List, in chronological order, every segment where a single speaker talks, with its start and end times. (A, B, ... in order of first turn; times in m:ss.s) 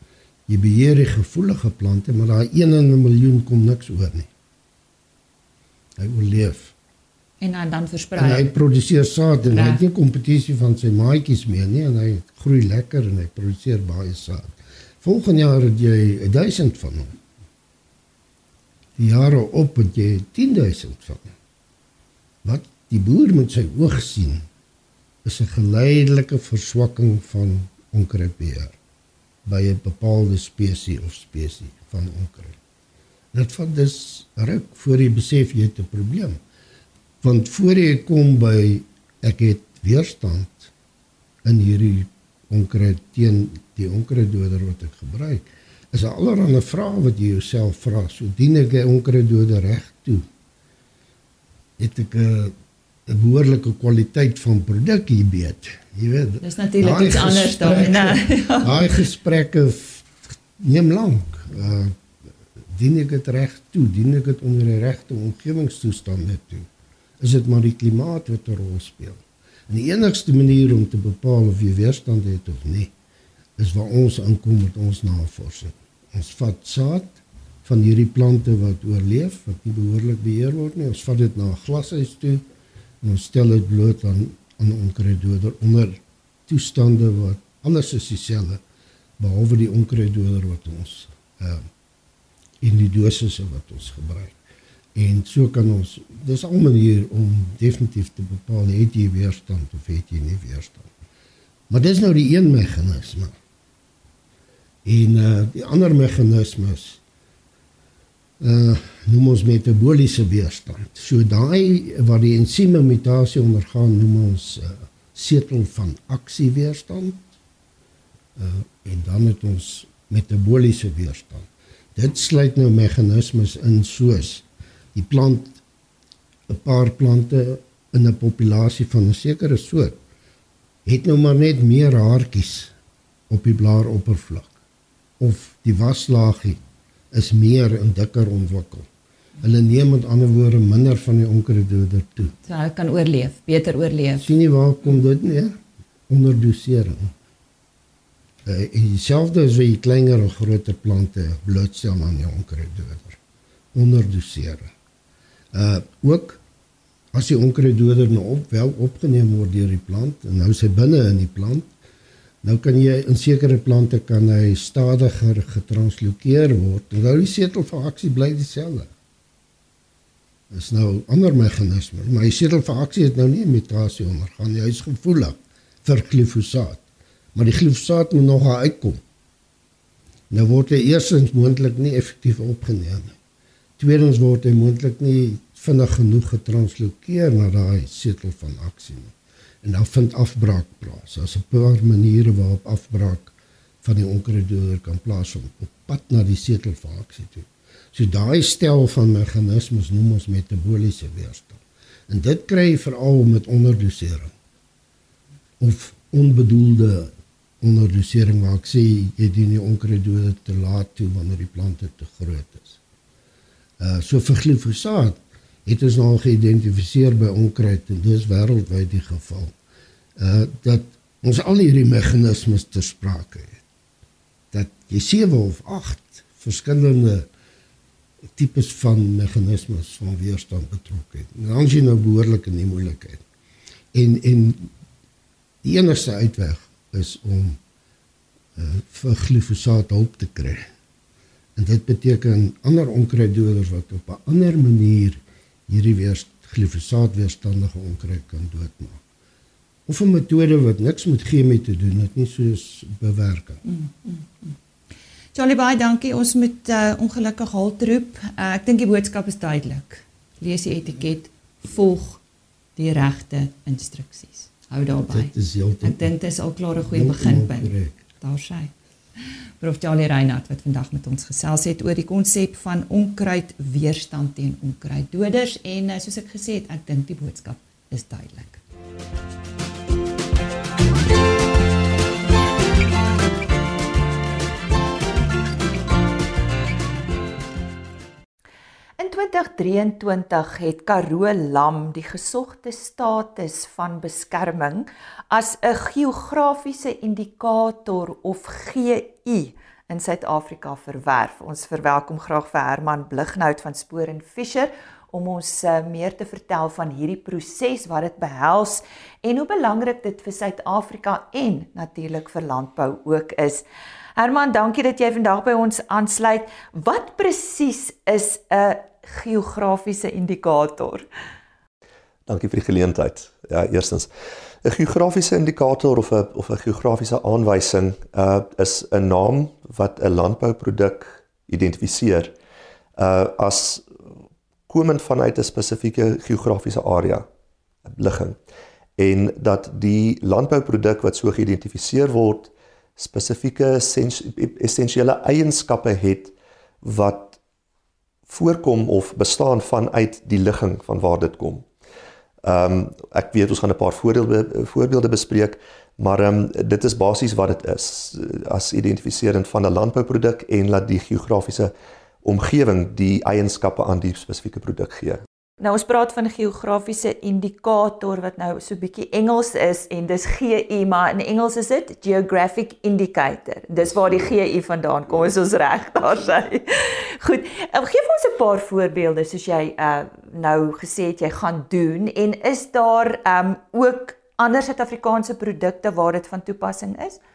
0:00.5-0:04.3 A
0:06.0-0:06.7 A
0:07.4-0:08.5 B
0:08.2-0:17.2 A
0:09.4-0:09.8 B
0:19.0-0:21.3 A
0:22.4-0:24.5 A
0:25.2-0:28.8 A
0:29.4-0:32.6 A
0:33.3-0:36.4 A
0:37.2-0:40.7 A
0:41.4-0:50.2 A
0:51.8-0:52.5 A
0:53.1-1:01.9 A
0:56.4-0:58.9 B
1:02.7-1:06.7 A
1:07.2-1:12.9 A
1:13.6-1:22.4 A
1:23.0-1:28.6 A
1:29.2-1:31.6 A
1:32.6-1:34.4 A
1:34.9-1:40.9 A
1:41.7-1:43.3 A
1:44.8-1:47.0 A
1:48.4-1:57.3 A
1:58.4-2:05.6 A
2:06.5-2:10.0 A
2:10.8-2:12.7 A
2:13.3-2:14.5 A
2:15.2-2:16.6 A
2:17.1-2:18.9 A
2:19.4-2:22.3 A
2:22.4-2:24.3 B
2:24.2-2:25.5 A
2:26.1-2:27.1 A
2:28.4-2:33.2 A
2:33.7-2:34.7 A
2:35.5-2:36.4 A
2:37.1-2:41.7 A
2:42.4-2:48.9 A
2:50.5-2:56.8 A
2:57.3-2:59.0 A
3:00.3-3:03.2 A
3:03.8-3:24.3 A
3:25.6-3:32.8 A
3:33.8-3:39.5 A
3:40.2-3:43.6 A
3:44.5-3:47.3 A
3:48.4-3:53.2 A
3:53.9-3:54.7 A
3:55.6-3:57.6 A
3:58.6-4:00.7 A
4:01.6-4:09.0 A
4:09.9-4:13.6 A
4:13.6-4:14.5 B
4:15.3-4:22.2 B
4:22.8-4:25.3 B
4:25.1-4:26.1 A
4:25.8-4:28.7 B
4:26.9-4:28.0 A
4:29.6-4:38.6 B
4:49.0-5:13.6 B
5:14.2-5:21.0 B
5:22.3-5:24.1 C
5:24.6-5:32.3 C
5:33.0-5:33.8 C
5:34.7-5:37.3 C
5:37.9-5:38.4 C
5:39.0-5:47.4 C
5:48.3-5:51.6 C
5:52.4-6:01.7 C
6:02.2-6:05.2 C
6:05.6-6:27.2 B